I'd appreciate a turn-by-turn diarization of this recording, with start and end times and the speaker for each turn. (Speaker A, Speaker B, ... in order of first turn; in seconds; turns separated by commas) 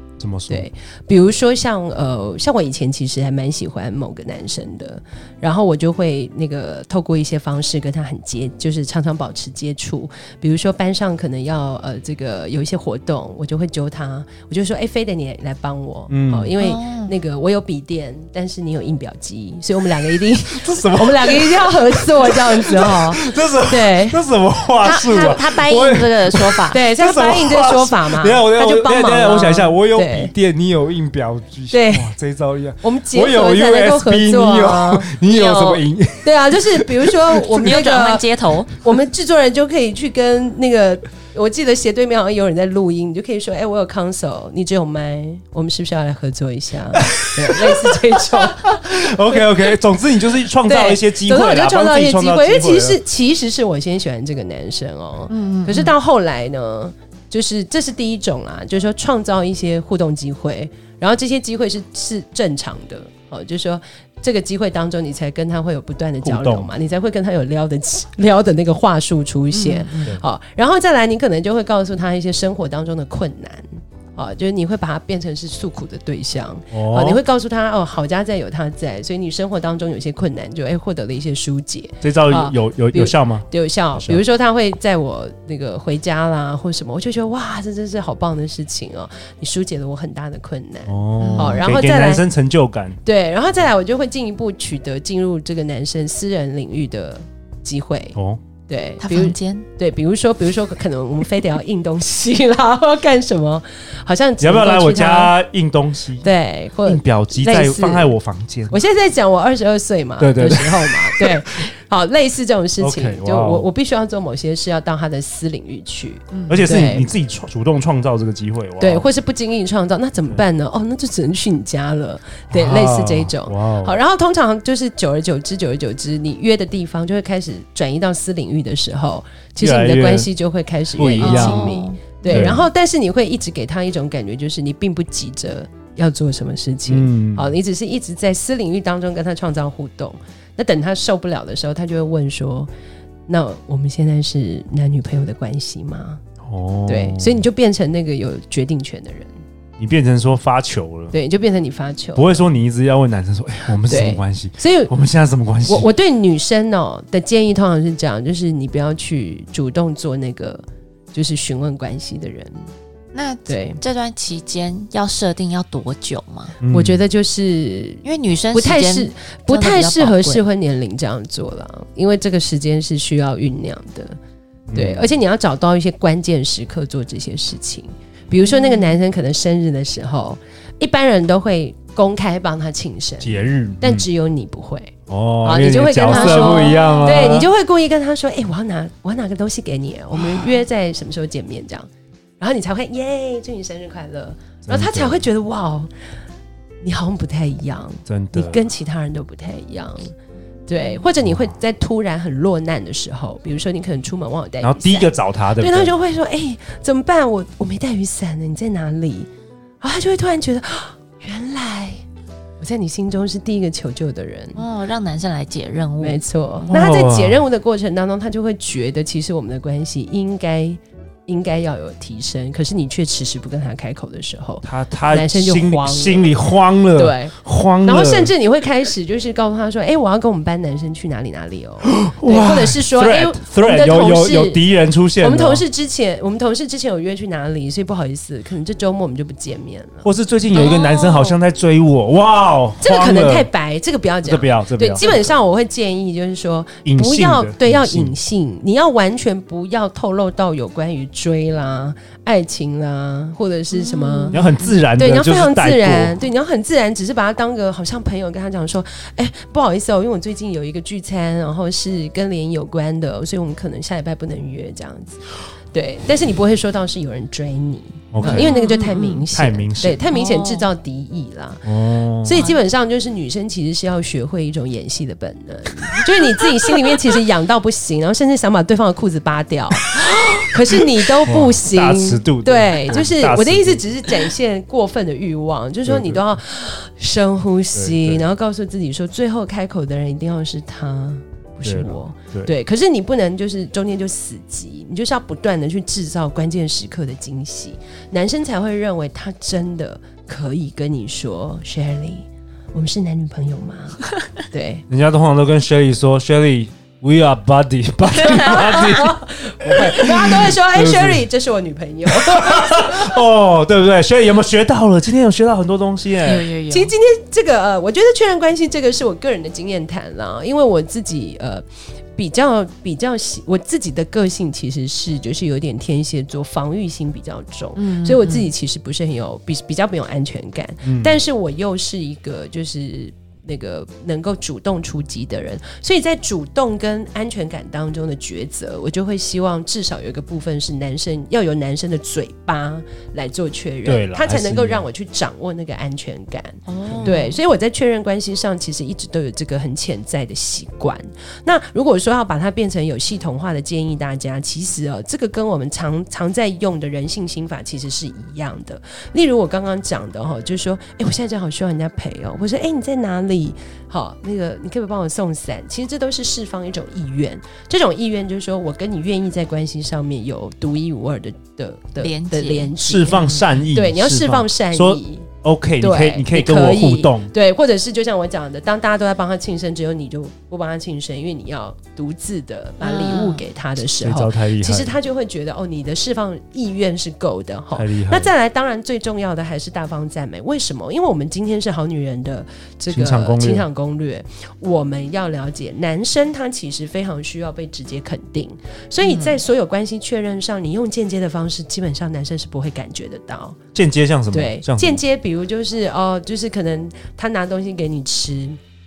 Speaker A: 0.2-0.7, Speaker B: 0.5-24.2, Speaker A: 16.1-16.5, Speaker C: 16.6-17.1, Speaker A: 20.5-37.5, Speaker B: 24.8-25.4, Speaker C: 24.8-26.8, Speaker B: 26.7-30.3, Speaker B: 31.7-32.1, Speaker B: 32.8-35.2, Speaker C: 35.2-35.8, Speaker B: 36.2-49.4, Speaker C: 37.5-38.8, Speaker A: 47.0-53.0, Speaker B: 50.6-92.2, Speaker C: 55.3-55.9, Speaker A: 66.2-66.7, Speaker C: 69.5-70.2, Speaker A: 76.7-77.2, Speaker A: 82.0-84.2, Speaker A: 90.9-93.0, Speaker C: 91.2-91.7, Speaker B: 93.0-98.2, Speaker A: 98.2-98.4, Speaker B: 98.7-105.3, Speaker C: 99.0-99.7, Speaker A: 104.4-106.3, Speaker B: 106.2-108.1, Speaker A: 106.8-108.8, Speaker B: 108.7-117.1, Speaker A: 110.2-111.7, Speaker A: 112.8-113.7, Speaker C: 116.3-116.6, Speaker A: 116.5-119.1, Speaker B: 118.8-142.7, Speaker A: 122.5-124.0, Speaker A: 129.6-130.3, Speaker A: 130.9-132.7, Speaker C: 131.2-132.4, Speaker A: 136.9-137.5, Speaker B: 143.3-146.2, Speaker A: 146.4-147.4, Speaker B: 146.9-149.3, Speaker A: 149.8-151.2, Speaker B: 151.1-152.5, Speaker A: 152.2-155.9, Speaker B: 153.7-154.9, Speaker B: 155.7-162.7, Speaker C: 163.1-166.6, Speaker B: 163.5-163.8, Speaker A: 166.6-167.0, Speaker B: 166.6-174.2, Speaker C: 168.0-170.4, Speaker A: 174.7-175.1, Speaker B: 174.8-184.9, Speaker C: 178.3-179.0, Speaker A: 183.2-184.1, Speaker A: 185.1-187.5, Speaker B: 185.4-191.9, Speaker C: 186.1-187.4, Speaker B: 192.4-195.9, Speaker A: 194.7-195.2, Speaker B: 196.8-200.1, Speaker A: 198.1-198.6, Speaker B: 200.7-209.3, Speaker A: 204.6-205.9, Speaker B: 209.8-212.0, Speaker B: 212.6-214.6, Speaker C: 214.6-216.2, Speaker B: 216.0-234.6, Speaker A: 216.7-217.4, Speaker A: 224.6-228.3, Speaker A: 231.9-235.7, Speaker B: 235.2-240.1, Speaker A: 240.0-243.5, Speaker C: 240.5-241.4, Speaker B: 242.8-254.4, Speaker A: 244.2-245.1, Speaker A: 246.8-248.2, Speaker C: 253.7-254.8, Speaker A: 254.3-256.2, Speaker B: 255.0-304.9, Speaker A: 268.1-268.6, Speaker C: 268.2-269.3, Speaker A: 269.3-270.0, Speaker C: 270.1-270.7, Speaker A: 271.7-272.4, Speaker A: 281.2-284.1, Speaker A: 285.9-286.2, Speaker A: 287.7-288.2, Speaker A: 291.6-292.5, Speaker A: 304.9-311.2, Speaker B: 308.2-313.2, Speaker A: 312.1-316.5, Speaker C: 316.2-316.9, Speaker B: 316.7-321.6, Speaker B: 322.2-375.3, Speaker C: 327.8-328.5, Speaker A: 330.8-331.2, Speaker A: 343.9-344.9, Speaker C: 346.7-347.4, Speaker C: 372.0-373.5, Speaker A: 372.8-377.3, Speaker B: 375.8-403.6, Speaker C: 382.8-383.4, Speaker A: 384.0-384.9, Speaker A: 387.7-388.3, Speaker A: 392.9-393.7, Speaker C: 399.0-399.4, Speaker A: 403.7-405.0, Speaker B: 404.3-408.6